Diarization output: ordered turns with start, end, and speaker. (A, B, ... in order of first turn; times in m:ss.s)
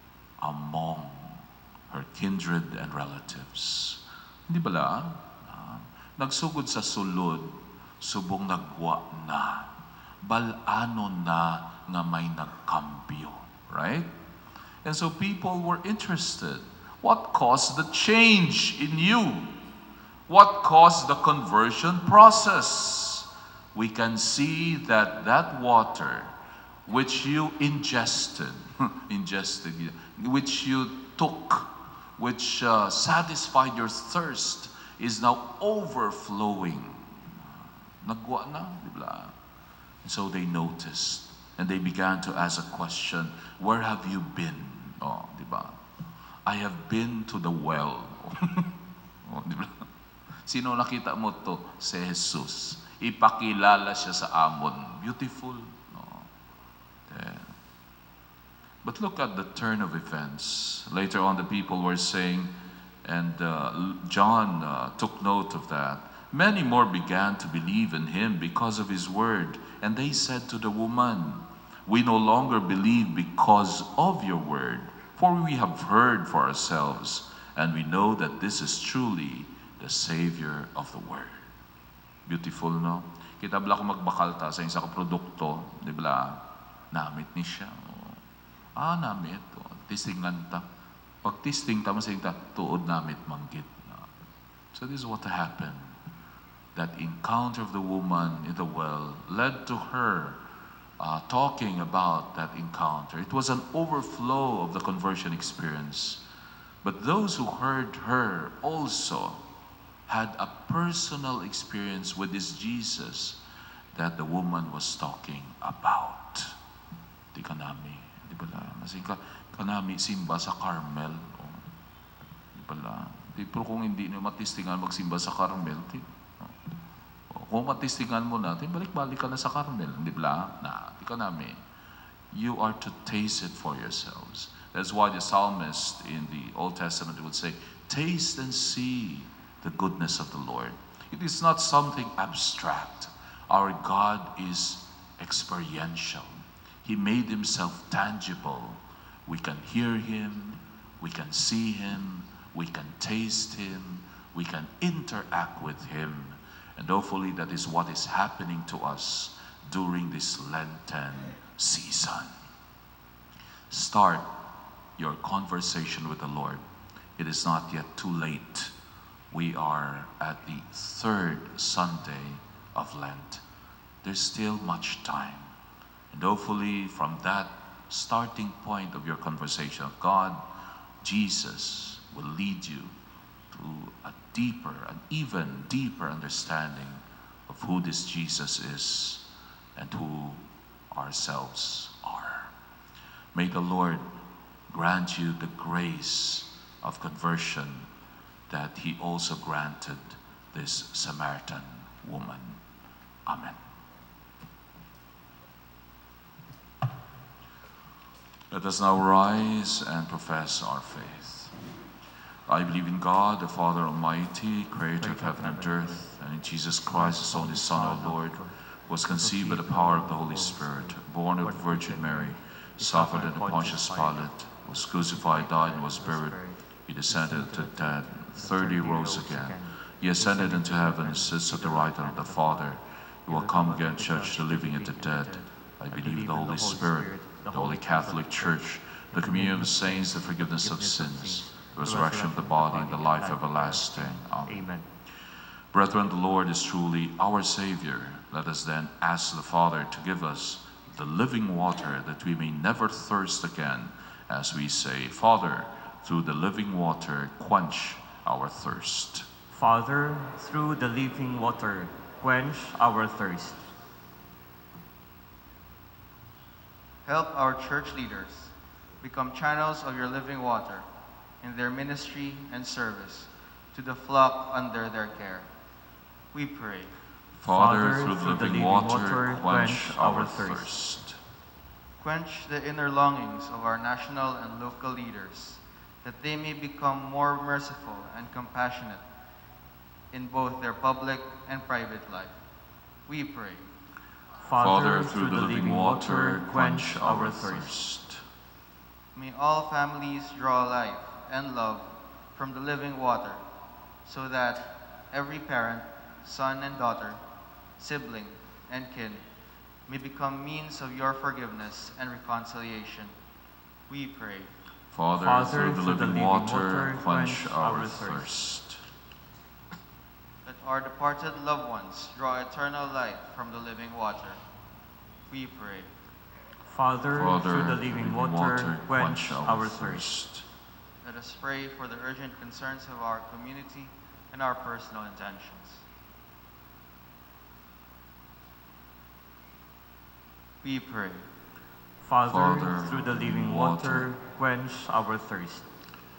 0:00.4-0:14.1 A
0:14.8-0:19.6 A
0:20.3-0:26.3 A
0:26.8-0:39.3 A
0:40.0-0:45.8 A
0:46.4-0:48.7 A
0:49.2-0:49.9 A
0:50.4-0:56.3 A
0:57.1-0:57.5 A
0:58.8-1:02.5 A
1:03.0-1:21.4 A
1:22.2-1:28.2 A
1:28.8-1:30.6 A
1:31.2-1:34.1 A
1:34.7-1:35.9 A
1:36.7-1:40.4 A
1:41.0-1:46.2 A
1:46.8-1:49.4 A
1:50.1-1:53.4 A
1:53.9-1:56.6 A
1:57.3-2:01.6 A
2:02.5-2:06.5 A
2:07.3-2:11.6 A
2:12.3-2:42.3 A
2:43.7-2:44.3 A
2:45.0-2:46.6 A
2:47.2-2:48.7 A
2:49.3-2:53.4 A
2:54.0-2:55.5 A
2:56.1-3:00.4 A
3:01.0-3:02.9 A
3:03.5-3:09.2 A
3:09.8-3:12.5 A
3:13.3-3:14.0 A
3:14.7-3:17.9 A
3:18.5-3:22.6 A
3:23.2-3:23.6 A
3:28.5-3:31.5 A
3:32.5-4:04.7 A
3:35.0-3:36.1 B
3:36.9-3:52.7 B
3:53.3-4:04.8 B
4:05.7-4:19.3 A
4:19.5-4:23.6 B
4:27.0-4:30.9 C
4:31.4-4:35.5 C
4:36.3-4:36.9 C
4:37.4-4:41.2 A
4:37.5-4:40.7 B
4:42.0-4:49.0 C
4:50.1-4:52.4 C
4:53.0-4:53.7 C
4:54.4-4:57.7 B
4:54.6-4:58.2 A
4:59.1-5:03.4 C
5:04.0-5:07.2 C
5:07.8-5:09.2 C
5:09.9-5:13.1 C
5:13.9-5:14.5 C
5:14.9-5:18.8 A
5:15.2-5:18.3 B
5:20.4-5:24.4 C
5:25.3-5:25.9 C
5:26.6-5:30.1 B
5:27.1-5:30.4 A
5:31.0-5:35.8 C
5:40.6-5:41.2 C
5:42.0-5:45.7 B
5:42.2-5:44.1 A